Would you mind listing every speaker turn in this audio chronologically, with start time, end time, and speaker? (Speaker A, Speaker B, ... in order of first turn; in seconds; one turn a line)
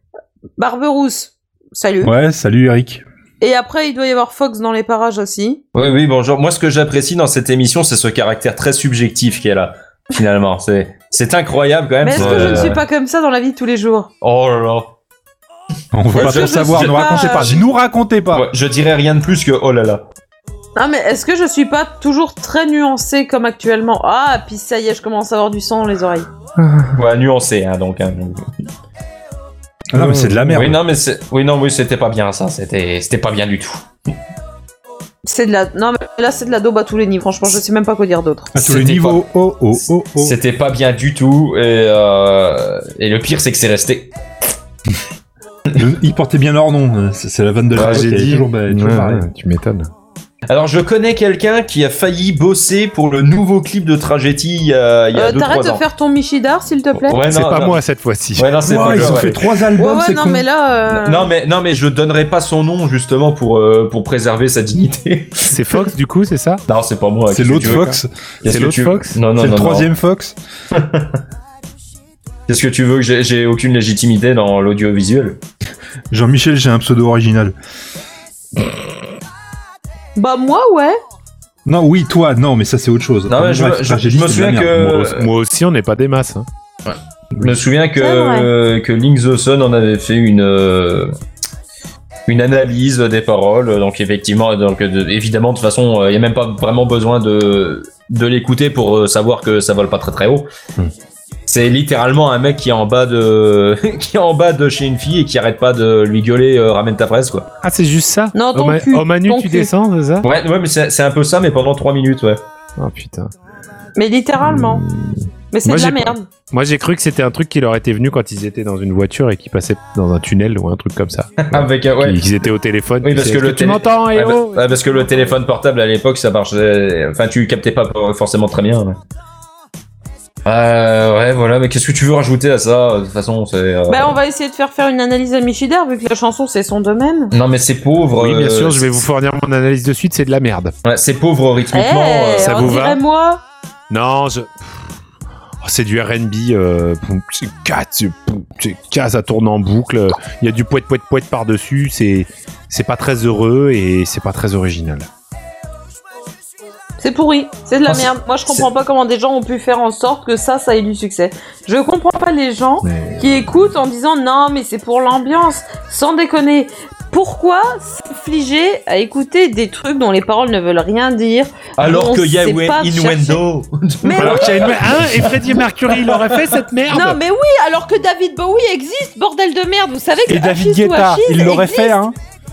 Speaker A: 0.6-2.1
Speaker B: 2.0-3.0
Speaker A: 3.4-5.6
Speaker C: 5.7-12.8
Speaker A: 12.0-14.1
Speaker B: 12.2-12.8
Speaker C: 14.2-14.9
Speaker B: 15.9-18.5
Speaker A: 16.1-17.6
Speaker C: 16.1-17.6
Speaker C: 18.3-20.0
Speaker A: 20.8-26.3
Speaker D: 26.6-26.9
Speaker C: 27.0-28.4
Speaker D: 29.9-30.6
Speaker B: 29.9-30.8
Speaker C: 30.5-33.9
Speaker A: 35.2-38.5
Speaker B: 38.5-40.3
Speaker C: 38.6-39.2
Speaker C: 40.2-44.1
Speaker B: 45.8-49.3
Speaker C: 47.7-48.1
Speaker D: 47.7-49.9
Speaker C: 50.5-55.8
Speaker A: 55.1-57.2
Speaker C: 57.1-57.8
Speaker D: 57.3-59.3
Speaker C: 58.4-59.4
Speaker B: 58.7-60.5
Speaker A: 59.8-61.3
Speaker C: 60.9-65.9
Speaker D: 65.5-66.6
Speaker C: 66.7-67.9
Speaker B: 67.3-68.1
Speaker D: 67.5-69.2
Speaker C: 68.4-69.9
Speaker B: 69.4-70.4
Speaker C: 70.7-71.1
Speaker C: 72.5-75.4
Speaker B: 76.1-77.5
Speaker A: 80.2-81.0
Speaker B: 81.7-84.9
Speaker C: 83.3-85.3
Speaker D: 84.8-86.5
Speaker C: 86.9-91.1
Speaker A: 88.0-88.5
Speaker C: 92.3-100.5
Speaker C: 101.5-107.5
Speaker D: 107.6-110.3
Speaker A: 108.3-109.7
Speaker C: 110.2-112.4
Speaker D: 112.8-113.3
Speaker A: 114.0-114.8
Speaker D: 114.4-125.4
Speaker A: 115.5-116.3
Speaker C: 121.4-122.5
Speaker C: 123.0-129.0
Speaker C: 130.4-134.2
Speaker A: 133.9-137.3
Speaker C: 137.3-138.9
Speaker D: 138.2-140.7
Speaker C: 140.8-142.7
Speaker A: 141.7-143.4
Speaker D: 142.4-143.0
Speaker D: 143.9-144.5
Speaker D: 145.6-155.1
Speaker A: 157.0-173.4
Speaker C: 157.8-158.7
Speaker D: 162.8-163.3
Speaker C: 171.8-176.4
Speaker A: 174.0-174.8
Speaker D: 174.2-177.2
Speaker A: 176.9-182.0
Speaker B: 180.3-182.2